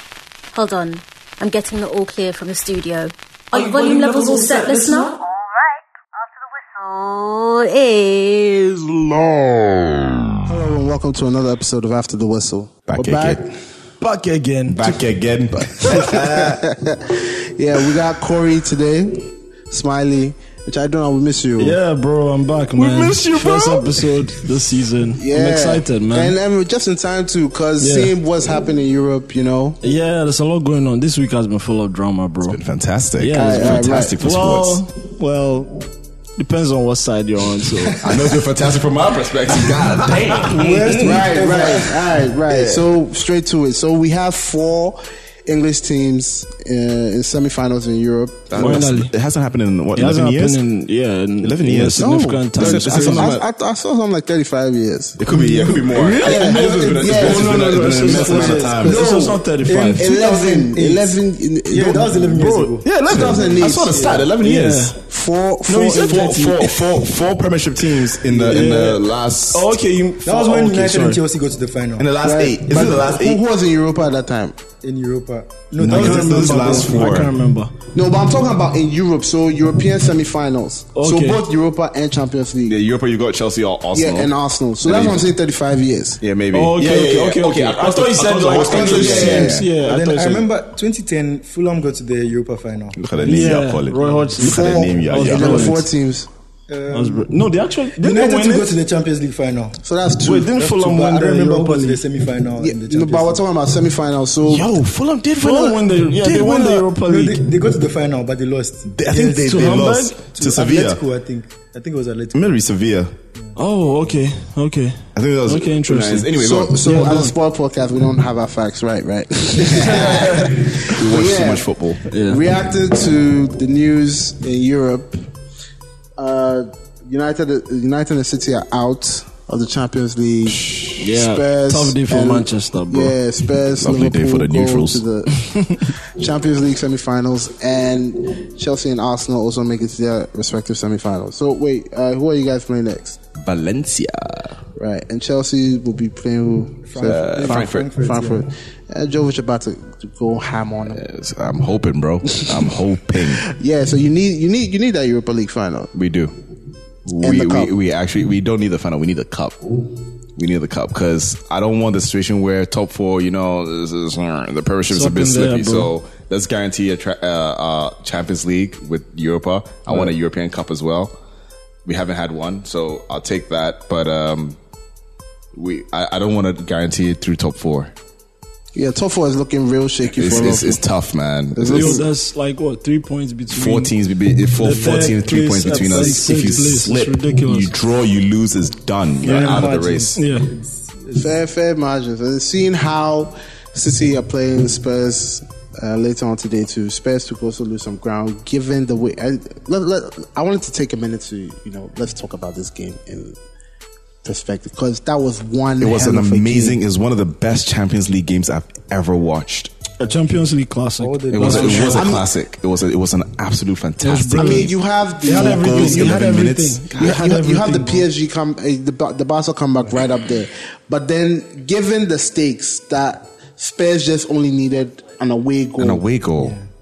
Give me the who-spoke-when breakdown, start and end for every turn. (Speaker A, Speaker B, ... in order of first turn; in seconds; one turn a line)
Speaker A: 0.5-8.9
Speaker B: 3.5-5.1
Speaker C: 8.9-10.4
Speaker D: 10.5-13.5
Speaker C: 12.9-13.4
Speaker B: 14.0-15.1
Speaker C: 14.7-16.6
Speaker D: 15.8-21.8
Speaker B: 21.6-26.4
Speaker C: 22.7-24.1
Speaker D: 25.1-29.8
Speaker B: 27.8-28.1
Speaker B: 29.8-32.6
Speaker C: 32.4-34.8
Speaker B: 33.2-38.0
Speaker D: 33.3-34.1
Speaker C: 38.0-40.5
Speaker B: 40.1-41.4
Speaker E: 40.4-42.1
Speaker D: 41.0-48.8
Speaker C: 42.5-42.8
Speaker C: 48.5-50.6
Speaker B: 48.5-49.1
Speaker B: 49.9-53.4
Speaker C: 51.4-53.4
Speaker D: 52.0-55.2
Speaker C: 55.2-59.0
Speaker E: 55.3-59.1
Speaker B: 55.9-56.5
Speaker D: 56.2-57.8
Speaker B: 57.1-60.2
Speaker D: 58.8-59.4
Speaker E: 59.6-61.1
Speaker D: 60.0-64.3
Speaker E: 61.7-64.3
Speaker B: 62.4-63.5
Speaker C: 63.1-65.0
Speaker B: 64.4-65.0
Speaker D: 65.1-66.4
Speaker B: 65.7-66.8
Speaker C: 65.9-69.7
Speaker B: 67.8-71.2
Speaker E: 68.3-68.8
Speaker E: 70.2-72.1
Speaker C: 72.0-73.4
Speaker D: 72.2-74.6
Speaker E: 74.8-77.0
Speaker C: 75.8-77.3
Speaker B: 75.8-77.7
Speaker D: 76.0-76.8
Speaker D: 77.9-82.8
Speaker B: 80.9-81.4
Speaker C: 82.7-84.3
Speaker D: 83.9-86.2
Speaker C: 84.8-85.3
Speaker C: 86.2-89.7
Speaker B: 86.5-90.5
Speaker D: 88.5-89.5
Speaker E: 88.5-93.5
Speaker C: 93.0-95.7
Speaker B: 93.2-95.9
Speaker D: 94.4-96.3
Speaker E: 96.7-97.3
Speaker B: 96.9-98.8
Speaker E: 98.0-99.8
Speaker D: 99.8-100.5
Speaker B: 100.2-102.0
Speaker E: 100.5-103.4
Speaker D: 102.6-104.8
Speaker C: 104.4-106.9
Speaker B: 105.4-107.5
Speaker E: 107.1-112.6
Speaker C: 108.9-111.0
Speaker B: 109.5-110.2
Speaker C: 112.3-113.1
Speaker B: 113.5-117.3
Speaker C: 115.1-117.1
Speaker D: 116.3-125.2
Speaker B: 119.6-120.7
Speaker C: 119.8-122.0
Speaker B: 122.0-122.4
Speaker D: 126.2-143.2
Speaker C: 130.5-131.0
Speaker B: 131.0-133.1
Speaker C: 133.8-135.0
Speaker B: 135.4-135.8
Speaker C: 143.4-144.6
Speaker D: 144.8-151.0
Speaker E: 146.9-148.5
Speaker C: 147.1-147.8
Speaker C: 150.9-153.4
Speaker D: 153.4-155.9
Speaker C: 155.9-156.3
Speaker C: 157.0-159.6
Speaker D: 157.2-157.7
Speaker C: 160.3-171.1
Speaker B: 164.9-165.9
Speaker C: 171.8-174.6
Speaker C: 175.5-177.9
Speaker D: 178.7-180.8
Speaker C: 180.1-182.0
Speaker D: 181.5-182.1
Speaker B: 181.7-183.9
Speaker C: 183.5-190.2
Speaker B: 184.6-187.8
Speaker E: 185.7-186.6
Speaker E: 189.2-191.3
Speaker B: 190.1-190.5
Speaker D: 191.1-203.4
Speaker D: 204.2-206.8
Speaker C: 205.8-209.7
Speaker B: 210.0-212.1
Speaker E: 211.0-212.0
Speaker C: 211.3-214.7
Speaker D: 211.7-212.3
Speaker B: 214.0-214.7
Speaker D: 214.3-216.4
Speaker B: 215.2-217.1
Speaker E: 215.3-215.6
Speaker C: 215.3-217.1
Speaker E: 216.3-218.1
Speaker D: 216.9-226.1
Speaker C: 225.8-226.6
Speaker E: 226.4-226.6